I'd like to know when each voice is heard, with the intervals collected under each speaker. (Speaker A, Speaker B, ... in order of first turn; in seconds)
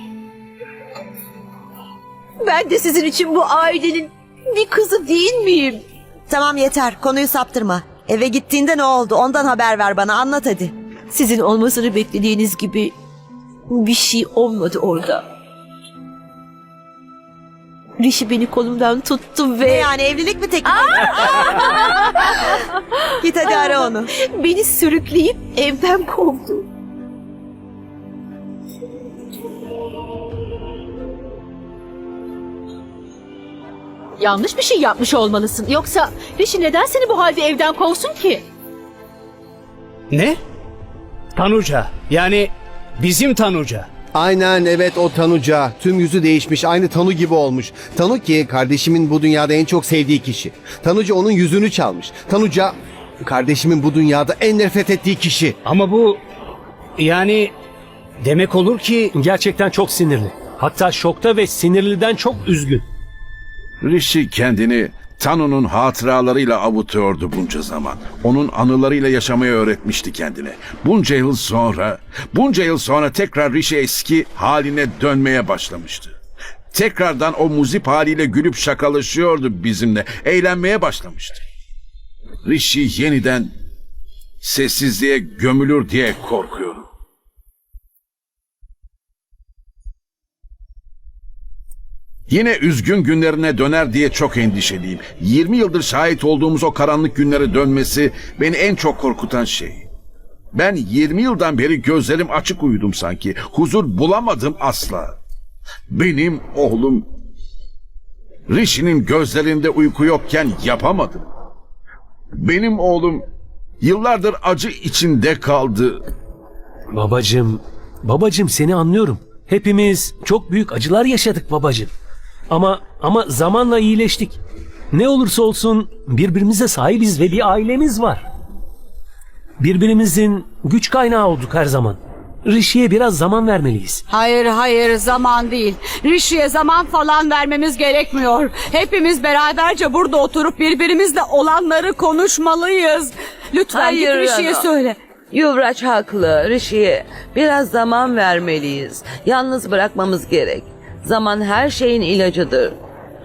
Speaker A: 2.4-5.8, 11.1-12.9, 13.7-15.2, 18.0-19.9, 20.7-22.3, 23.4-26.7
Speaker B: 6.3-10.7, 19.6-21.9, 23.2-24.1
Speaker C: 34.2-38.4
Speaker D: 40.1-40.4, 41.4-43.9, 55.6-56.2, 57.0-57.5, 58.2-59.1
Speaker E: 44.1-55.5
Speaker F: 59.1-62.9, 116.9-121.9, 122.5-124.4, 124.9-128.2, 129.6-134.0
Speaker G: 63.8-76.2, 76.7-81.4, 82.5-83.5, 84.4-86.8, 92.3-99.9, 100.5-105.2, 105.9-107.1, 108.5-111.2, 112.4-113.2, 113.8-116.0
Speaker H: 134.1-145.0
Speaker I: 143.7-144.7, 145.3-152.8